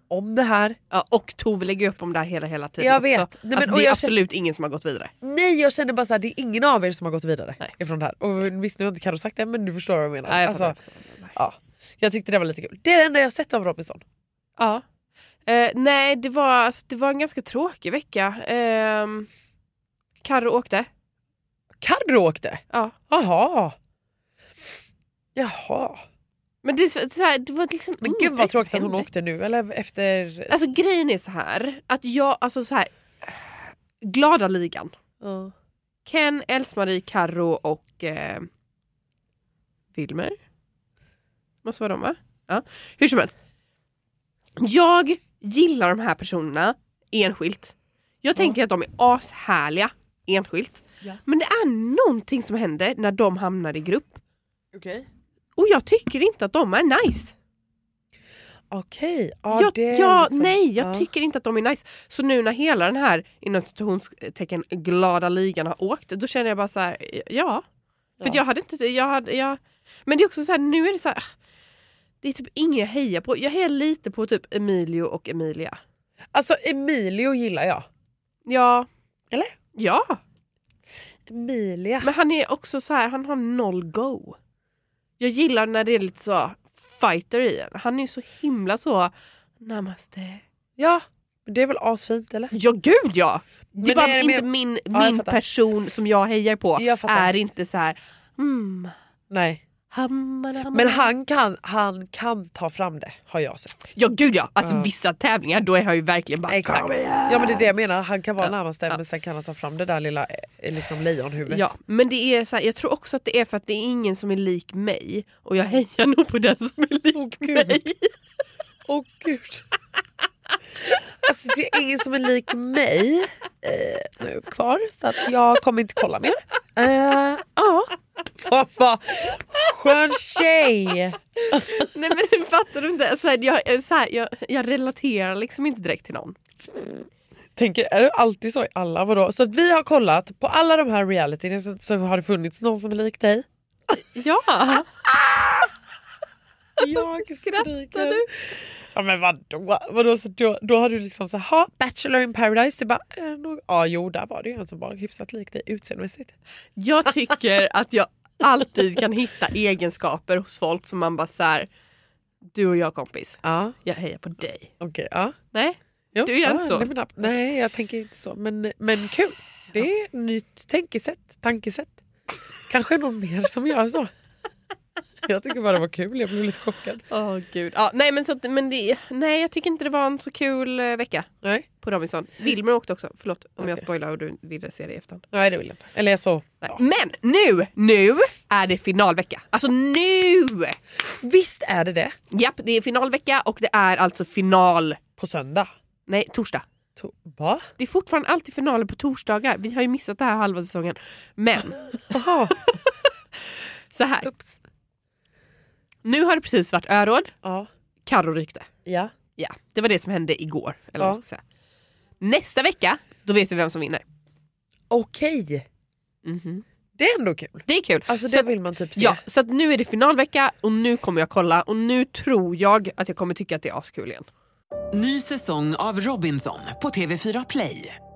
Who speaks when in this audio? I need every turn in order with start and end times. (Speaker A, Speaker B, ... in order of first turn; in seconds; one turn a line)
Speaker A: 0.1-0.8
Speaker B: 0.9-5.1
Speaker A: 2.8-4.2
Speaker A: 5.2-10.8
Speaker B: 10.3-11.3
Speaker A: 11.3-14.0
Speaker B: 14.6-14.8
Speaker B: 15.4-19.3
Speaker B: 20.2-20.9
Speaker A: 21.8-23.8
Speaker A: 25.4-26.0
Speaker B: 26.6-29.1
Speaker A: 28.0-30.5
Speaker B: 30.5-34.9
Speaker A: 35.2-35.5
Speaker B: 36.0-38.5
Speaker B: 39.9-40.4
Speaker B: 41.6-43.3
Speaker B: 44.6-54.2
Speaker A: 54.7-55.0
Speaker B: 55.5-57.3
Speaker A: 58.7-61.1
Speaker B: 59.5-67.6
Speaker B: 68.2-71.3
Speaker B: 72.2-75.8
Speaker A: 76.3-77.9
Speaker B: 78.5-78.9
Speaker B: 79.7-80.2
Speaker A: 81.3-82.1
Speaker B: 82.0-84.4
Speaker B: 85.2-90.4
Speaker A: 90.8-92.5
Speaker B: 92.5-98.9
Speaker A: 93.8-95.4
Speaker A: 96.7-97.3
Speaker A: 99.3-99.6
Speaker B: 99.9-101.0
Speaker A: 100.7-103.8
Speaker B: 103.9-107.7
Speaker A: 104.6-104.9
Speaker A: 106.5-111.6
Speaker B: 108.4-109.0
Speaker B: 111.5-118.1
Speaker A: 117.1-117.8
Speaker A: 118.9-119.7
Speaker A: 121.2-131.8
Speaker B: 131.5-136.4
Speaker A: 137.6-143.5
Speaker B: 144.1-144.9
Speaker A: 145.2-145.7
Speaker A: 146.8-156.3
Speaker B: 146.8-148.3
Speaker B: 156.8-161.7
Speaker B: 162.5-164.7
Speaker A: 163.4-163.8
Speaker A: 164.8-165.3
Speaker B: 165.5-166.9
Speaker A: 166.1-172.0
Speaker A: 172.7-174.1
Speaker A: 175.2-177.0
Speaker B: 177.1-181.3
Speaker B: 181.8-185.2
Speaker A: 183.6-183.8
Speaker A: 185.3-186.8
Speaker B: 186.6-190.8
Speaker A: 191.1-192.1
Speaker B: 192.3-195.0
Speaker A: 195.2-195.7
Speaker B: 196.1-196.6
Speaker A: 197.0-197.7
Speaker B: 197.8-201.8
Speaker A: 202.1-202.6
Speaker B: 203.5-204.3
Speaker B: 206.0-207.3
Speaker A: 207.4-207.7
Speaker B: 208.1-208.7
Speaker A: 208.8-209.1
Speaker B: 209.4-211.4
Speaker B: 212.2-214.0
Speaker A: 214.9-215.6
Speaker B: 216.2-216.6
Speaker A: 217.0-219.2
Speaker B: 217.7-224.3
Speaker C: 224.9-228.0